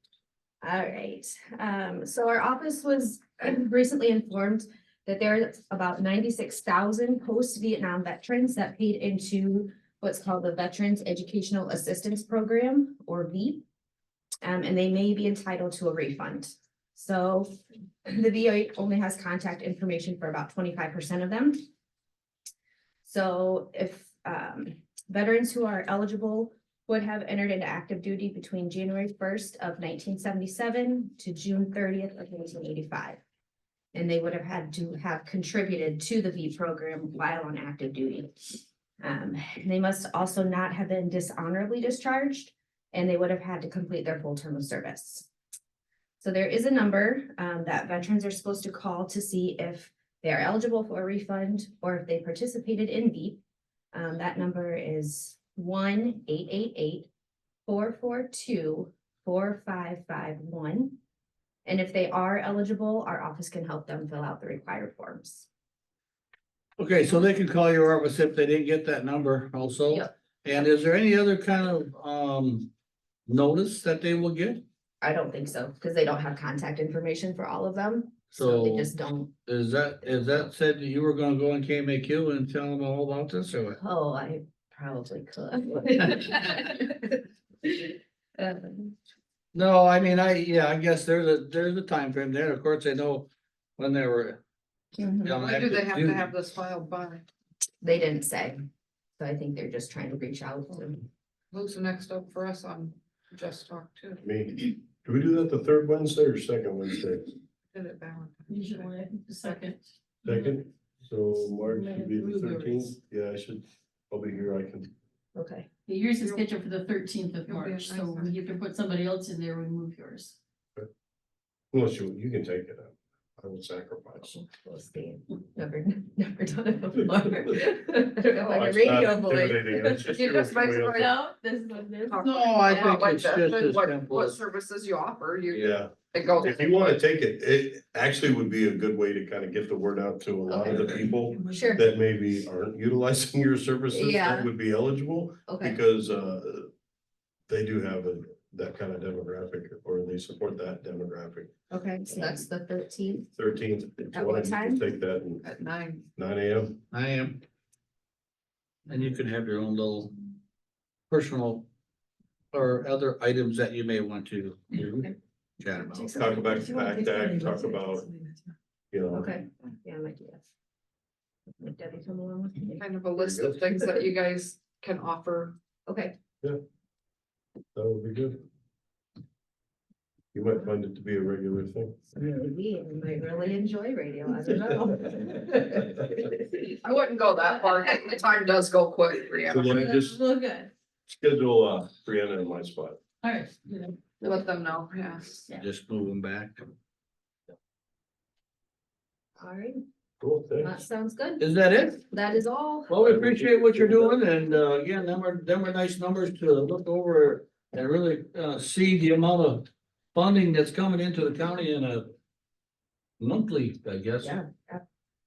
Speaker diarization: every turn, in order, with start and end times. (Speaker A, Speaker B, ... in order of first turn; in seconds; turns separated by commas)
Speaker A: 0.6-13.6, Speaker A: 14.4-17.6, Speaker A: 18.1-21.6, Speaker A: 23.0-33.2, Speaker A: 33.9-45.3, Speaker A: 46.2-53.4, Speaker A: 53.9-57.1, Speaker A: 57.7-61.0, Speaker A: 61.6-65.5, Speaker B: 66.8-72.7, Speaker B: 73.3-74.6, Speaker A: 75.0-79.3, Speaker B: 78.3-78.9, Speaker B: 79.5-83.8, Speaker A: 83.7-88.9, Speaker B: 89.5-94.4, Speaker A: 95.0-95.4, Speaker B: 95.2-96.3, Speaker C: 95.3-97.3, Speaker A: 97.8-98.6, Speaker A: 99.2-101.1, Speaker C: 101.5-104.2, Speaker D: 104.2-107.3, Speaker C: 107.7-109.7, Speaker E: 108.5-110.6, Speaker D: 110.2-114.9, Speaker E: 111.6-112.9, Speaker A: 115.3-115.7, Speaker E: 115.9-120.3, Speaker C: 116.2-116.5, Speaker C: 117.5-118.5, Speaker D: 121.7-124.3, Speaker A: 124.2-130.1, Speaker D: 128.5-131.1, Speaker C: 130.1-131.2, Speaker A: 130.9-132.3, Speaker C: 132.1-136.9, Speaker B: 132.2-134.4, Speaker D: 135.5-146.7, Speaker A: 140.5-141.8, Speaker A: 143.9-144.5, Speaker A: 145.5-145.8, Speaker D: 147.5-151.5, Speaker A: 151.7-153.3, Speaker D: 153.3-155.4, Speaker A: 154.1-154.8, Speaker C: 155.4-156.1, Speaker D: 156.2-156.8, Speaker B: 156.9-157.4, Speaker B: 158.9-160.2, Speaker B: 161.1-161.7, Speaker B: 162.5-166.4, Speaker D: 166.1-168.1, Speaker D: 168.9-169.3, Speaker A: 169.1-170.4, Speaker A: 171.6-172.9, Speaker C: 172.8-175.6, Speaker D: 173.2-173.6, Speaker A: 175.9-176.2, Speaker D: 177.8-178.4, Speaker D: 180.3-182.0, Speaker A: 182.2-186.7, Speaker C: 186.7-189.7, Speaker D: 189.5-190.2, Speaker A: 189.7-190.7, Speaker D: 191.1-193.0, Speaker E: 193.2-193.7, Speaker C: 194.2-195.4, Speaker B: 195.5-196.6, Speaker A: 199.4-199.8, Speaker D: 200.2-200.7, Speaker A: 200.6-201.5, Speaker B: 201.4-202.1, Speaker A: 202.1-203.0, Speaker B: 202.9-212.1, Speaker D: 203.1-204.2, Speaker B: 213.2-214.4, Speaker A: 214.2-214.8